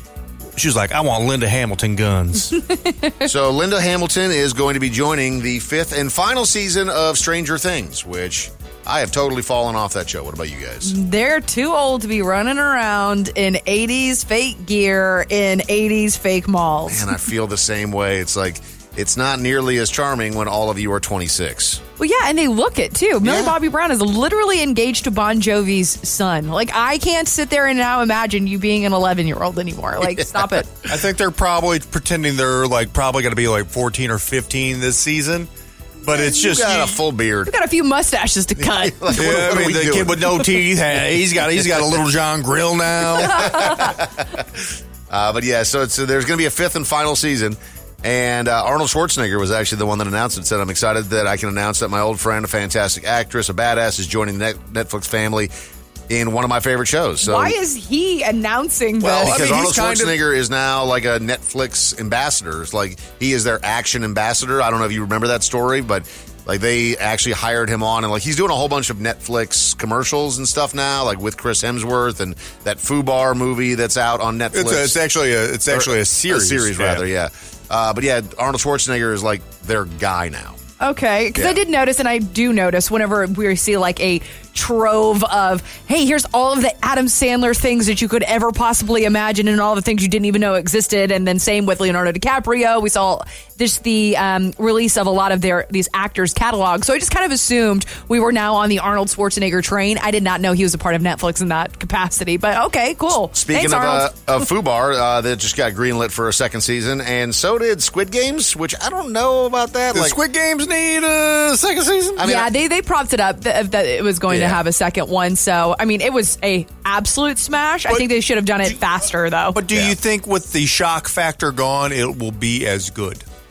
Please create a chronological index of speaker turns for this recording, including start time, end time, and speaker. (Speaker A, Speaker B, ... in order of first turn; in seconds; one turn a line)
Speaker A: 0.6-2.6
Speaker B: 2.7-3.3
Speaker C: 3.2-10.9
Speaker B: 10.8-17.1
Speaker C: 16.9-21.8
Speaker B: 22.0-30.7
Speaker C: 23.2-23.6
Speaker C: 30.0-30.6
Speaker A: 30.9-35.5
Speaker A: 36.0-37.0
Speaker C: 36.1-37.5
Speaker B: 37.5-39.2
Speaker C: 38.6-40.4
Speaker A: 39.2-43.7
Speaker C: 43.3-55.5
Speaker B: 43.4-43.9
Speaker C: 56.1-57.6
Speaker B: 57.2-59.6
Speaker C: 59.0-75.0
Speaker A: 59.1-60.1
Speaker A: 74.5-77.0
Speaker C: 75.7-80.6
Speaker B: 80.8-104.4
Speaker C: 81.3-81.6
Speaker C: 103.3-110.2
Speaker A: 109.9-112.2
Speaker C: 112.2-112.5
Speaker B: 112.2-119.6
Speaker C: 114.3-114.6
Speaker A: 119.5-123.2